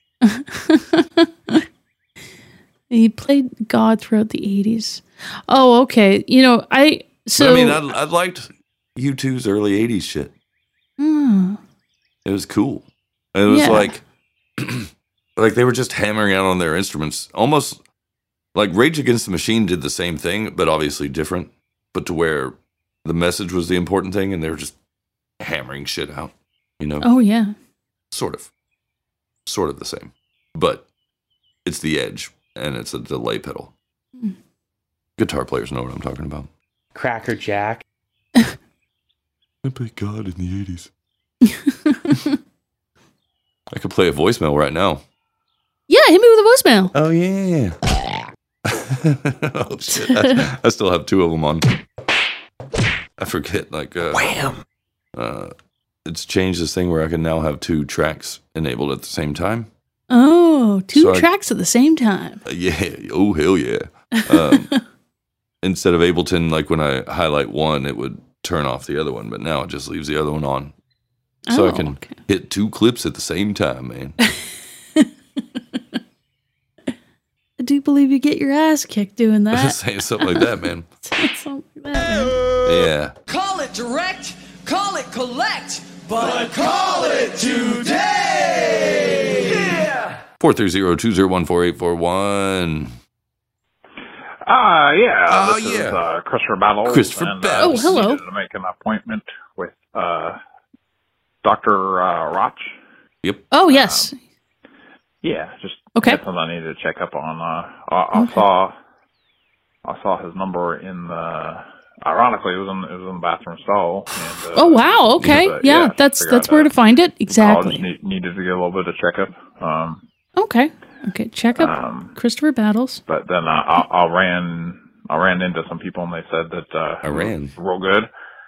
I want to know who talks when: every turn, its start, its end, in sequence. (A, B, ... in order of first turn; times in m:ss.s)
0:00.2-0:01.6 A
0:02.9-0:07.8 A
0:07.4-0:10.3 B
0:11.0-0:11.6 A
0:12.2-0:14.0 B
0:13.5-0:14.0 A
0:14.6-0:17.8 B
0:18.5-0:24.8 B
0:25.4-0:27.1 B
0:27.0-0:27.5 A
0:28.1-0:28.5 B
0:29.4-0:30.8 B
0:31.6-0:33.7 B
0:35.2-0:36.5 B
0:39.6-0:40.9 B
0:41.4-0:42.3 A
0:43.7-0:45.0 B
0:45.9-0:46.9 A
0:46.9-0:47.8 B
0:48.7-0:51.6 B
0:49.9-0:50.4 A
0:53.2-0:54.5 B
0:55.1-0:55.5 B
0:56.0-0:59.7 B
1:00.1-1:02.4 A
1:00.9-1:01.3 B
1:02.4-1:04.7 B
1:04.3-1:04.8 A
1:05.6-1:10.7 B
1:11.5-1:12.2 A
1:11.5-1:14.2 B
1:17.6-1:20.5 A
1:19.5-1:20.8 B
1:21.0-1:22.4 A
1:22.6-1:23.2 B
1:23.2-1:29.9 C
1:30.4-1:32.9 B
1:34.5-1:40.4 D
1:35.3-1:36.0 B
1:36.8-1:38.0 B
1:37.6-1:38.2 A
1:41.4-1:42.7 D
1:43.2-1:43.5 B
1:43.5-1:44.2 A
1:43.7-1:44.1 D
1:45.2-1:48.7 D
1:46.0-1:46.2 A
1:48.1-1:48.4 A
1:49.8-1:56.7 D
1:54.5-1:57.8 A
1:55.2-1:55.5 B
1:57.3-2:00.0 D
2:00.4-2:03.0 A
2:01.5-2:02.1 D
2:03.1-2:08.1 D
2:07.0-2:07.5 B